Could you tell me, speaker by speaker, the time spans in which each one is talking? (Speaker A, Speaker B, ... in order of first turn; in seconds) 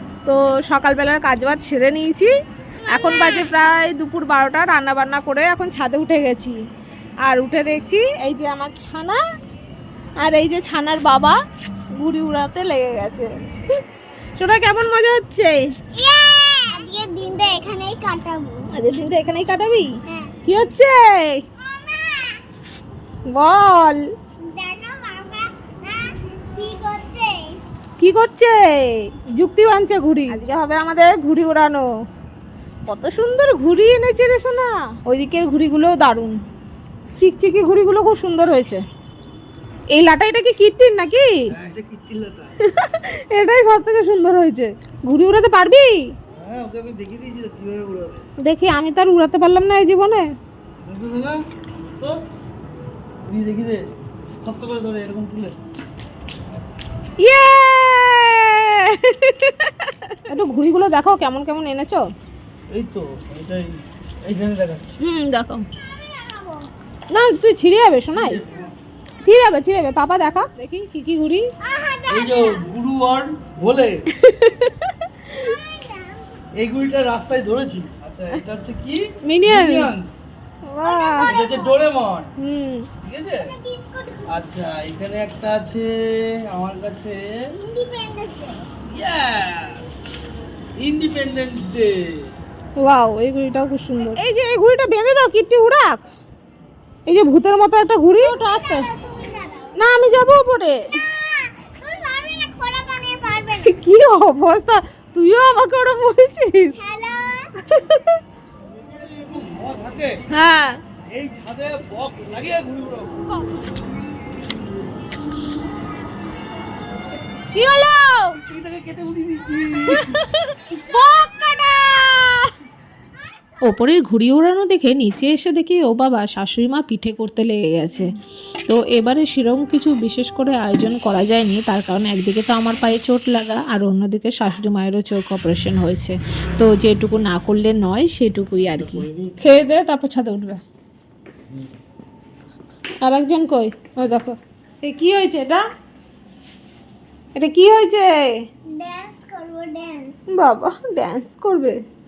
Speaker A: 0.2-2.3, 2.9-6.6, 7.2-9.2, 10.2-11.4, 12.0-13.8, 14.4-15.6, 18.7-19.9, 20.5-21.4, 23.3-24.0, 28.0-31.9, 32.9-36.4, 37.2-38.8, 39.9-41.3, 42.6-46.1, 48.4-50.3, 57.2-62.1, 65.0-65.7, 67.1-68.4, 69.2-71.5, 74.2-74.9, 79.3-79.9, 80.7-81.4, 82.4-82.9, 92.8-96.0, 97.1-98.9, 99.8-101.0, 103.6-106.8, 107.6-108.2, 110.3-110.8, 117.5-118.4, 119.8-122.5, 139.4-140.6, 143.0-145.6, 147.4-148.3, 150.3-151.8
Speaker B: 2.9-3.5, 15.9-18.7, 20.1-20.4, 21.6-22.4, 24.4-27.6, 65.8-66.7, 71.6-72.7, 75.2-76.4, 80.8-81.8, 83.4-84.4, 87.5-88.7, 98.2-99.8, 101.0-103.8, 106.8-107.5, 120.7-121.3, 148.7-150.2
Speaker C: 41.5-42.5, 46.3-48.3, 50.8-51.4, 53.3-53.9, 54.4-55.5, 62.7-65.0, 68.1-68.7, 72.1-74.0, 76.6-80.1, 81.3-82.3, 83.0-83.5, 84.3-87.3, 88.9-89.9, 90.8-92.3, 108.7-110.2, 111.1-113.2, 118.4-120.2, 138.8-139.7
Speaker D: 123.6-128.1, 128.7-139.1